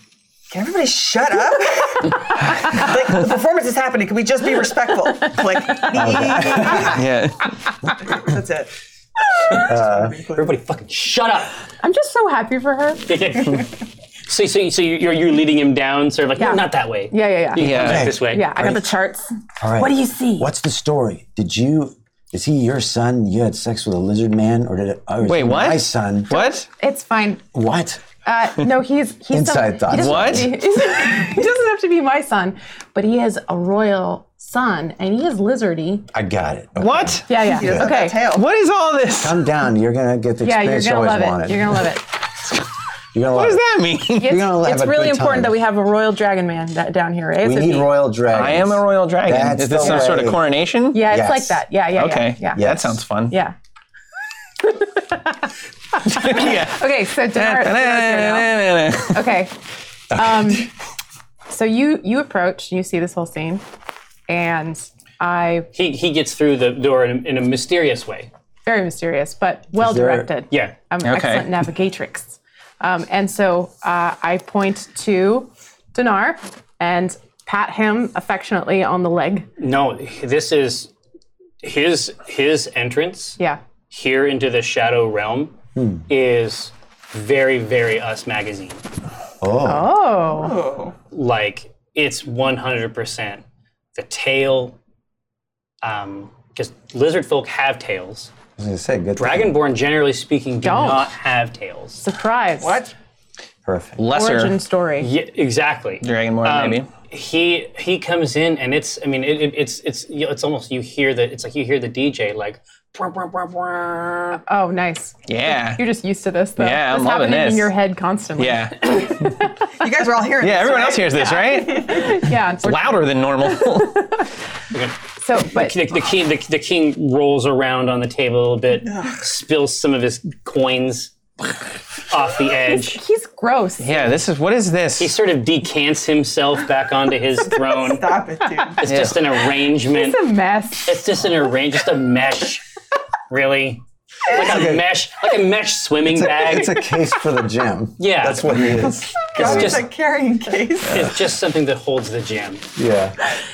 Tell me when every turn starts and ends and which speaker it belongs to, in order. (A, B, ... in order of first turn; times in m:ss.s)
0:00.5-0:07.0 A
0:06.0-0:06.9 B
0:06.8-0:07.5 C
0:08.0-0:08.7 A
0:09.4-0:10.5 A
0:09.6-0:10.2 B
0:10.4-0:11.6 D
0:11.8-0:13.0 E
0:13.1-0:18.5 D
0:16.4-0:20.5 E
0:17.6-0:18.1 C
0:17.8-0:18.9 B
0:19.6-0:26.4 B
0:25.2-0:26.6 C
0:26.3-0:27.4 E
0:27.5-0:28.0 B
0:28.2-0:36.1 E
0:29.3-0:30.6 B
0:29.9-0:30.5 C
0:36.1-0:37.9 B
0:36.8-0:37.2 C
0:37.3-0:38.2 E
0:37.3-0:38.5 A
0:38.2-0:39.4 C
0:39.2-0:41.9 B
0:40.4-0:42.1 E
0:43.1-0:43.6 B
0:43.3-0:44.4 C
0:44.2-0:47.9 E
0:44.2-0:45.6 B
0:47.4-0:50.4 B
0:48.3-0:51.1 C
0:50.9-0:52.6 E
0:51.0-0:51.6 B
0:51.9-0:53.4 C
0:52.6-0:53.0 B
0:53.3-0:53.5 E
0:54.6-0:59.5 E
0:56.0-0:59.4 C
1:00.1-1:00.7 E
1:00.1-1:00.6 B
1:01.5-1:03.6 E
1:04.3-1:05.7 E
1:05.7-1:08.3 D
1:08.6-1:19.5 E
1:09.7-1:10.3 B
1:11.0-1:11.6 C
1:19.6-1:20.9 D
1:21.6-1:23.4 D
1:23.9-1:25.5 D
1:25.7-1:26.0 B
1:26.1-1:28.8 D
1:29.4-1:29.9 B
1:29.6-1:30.6 E
1:30.3-1:30.9 A
1:31.1-1:33.4 D
1:33.9-1:34.8 D
1:35.8-1:38.3 D
1:38.6-1:39.6 B
1:39.2-1:42.0 D
1:40.6-1:41.1 E
1:42.0-1:42.8 E
1:42.6-1:42.9 A
1:43.6-1:44.0 B
1:44.0-1:44.6 C
1:44.1-1:45.1 E
1:45.0-1:54.4 D
1:46.0-1:46.9 C
1:54.4-1:59.4 E
1:55.3-1:55.8 C
1:56.6-1:57.7 C
1:58.4-1:59.4 C
1:59.8-2:01.6 A
2:00.4-2:04.2 C
2:01.2-2:04.2 E
2:04.7-2:11.5 D
2:05.2-2:05.8 E
2:12.1-2:13.0 D
2:12.7-2:14.2 E
2:13.8-2:15.2 C
2:15.0-2:18.1 D
2:17.6-2:18.8 A
2:18.8-2:20.2 D
2:18.8-2:19.2 C
2:19.8-2:21.0 E
2:20.8-2:22.6 D
2:23.3-2:26.9 D
2:24.3-2:24.8 B
2:26.0-2:29.8 B
2:28.0-2:29.9 D
2:29.2-2:31.1 A
2:30.8-2:32.6 D
2:32.8-2:33.2 B